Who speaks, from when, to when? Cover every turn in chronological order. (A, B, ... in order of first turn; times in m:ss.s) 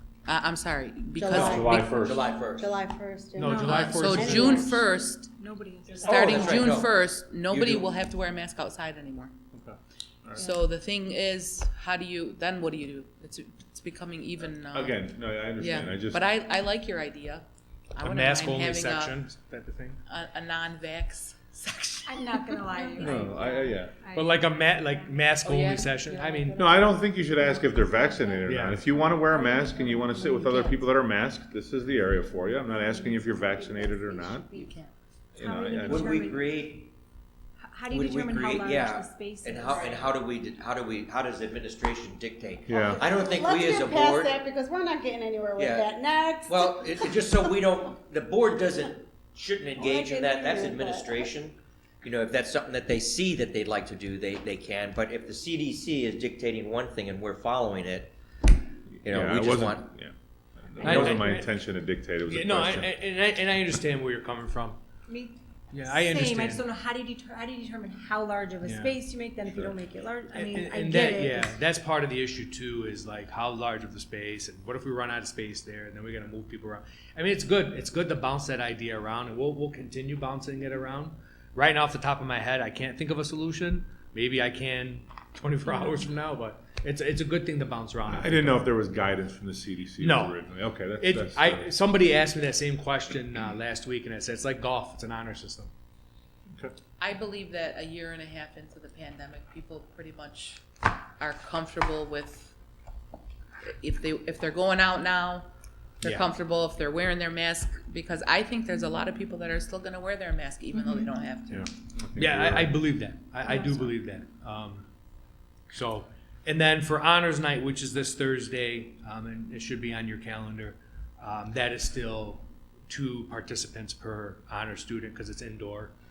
0:00.3-0:02.1 A
0:01.2-0:04.8 B
0:01.3-0:02.3 C
0:02.0-0:02.7 D
0:03.4-0:04.8 E
0:03.4-0:06.4 F
0:03.6-0:05.3 A
0:06.0-0:09.3 A
0:06.0-0:07.0 D
0:07.5-0:08.0 D
0:09.5-0:10.5 C
0:10.4-0:19.3 A
0:14.7-0:16.2 C
0:18.0-0:20.0 E
0:20.1-0:23.0 A
0:22.0-0:24.4 F
0:23.0-0:24.0 C
0:24.1-0:26.7 E
0:25.4-0:26.0 A
0:26.0-0:26.9 B
0:26.5-0:34.6 C
0:28.4-0:28.8 E
0:29.0-0:30.8 F
0:33.8-0:34.9 B
0:35.4-0:36.2 C
0:35.4-0:36.7 F
0:35.8-0:36.9 D
0:37.6-0:40.0 F
0:37.9-0:44.4 D
0:42.7-0:43.0 C
0:42.7-0:47.4 B
0:45.6-0:46.0 D
0:46.5-0:58.1 D
0:49.8-0:51.2 B
0:49.9-0:51.0 F
0:59.0-1:02.9 C
0:59.0-0:59.9 D
1:00.8-1:01.3 D
1:00.8-1:01.5 E
1:02.3-1:04.8 E
1:05.1-1:11.6 F
1:05.7-1:06.7 E
1:08.6-1:08.9 E
1:10.3-1:28.6 E
1:28.0-1:31.7 C
1:30.0-1:30.4 E
1:31.0-1:35.7 E
1:37.0-1:40.6 A
1:41.2-1:42.5 A
1:43.8-1:45.5 A
1:46.0-1:51.7 A
1:51.5-1:52.8 C
1:52.2-1:54.9 E
1:55.7-2:05.9 E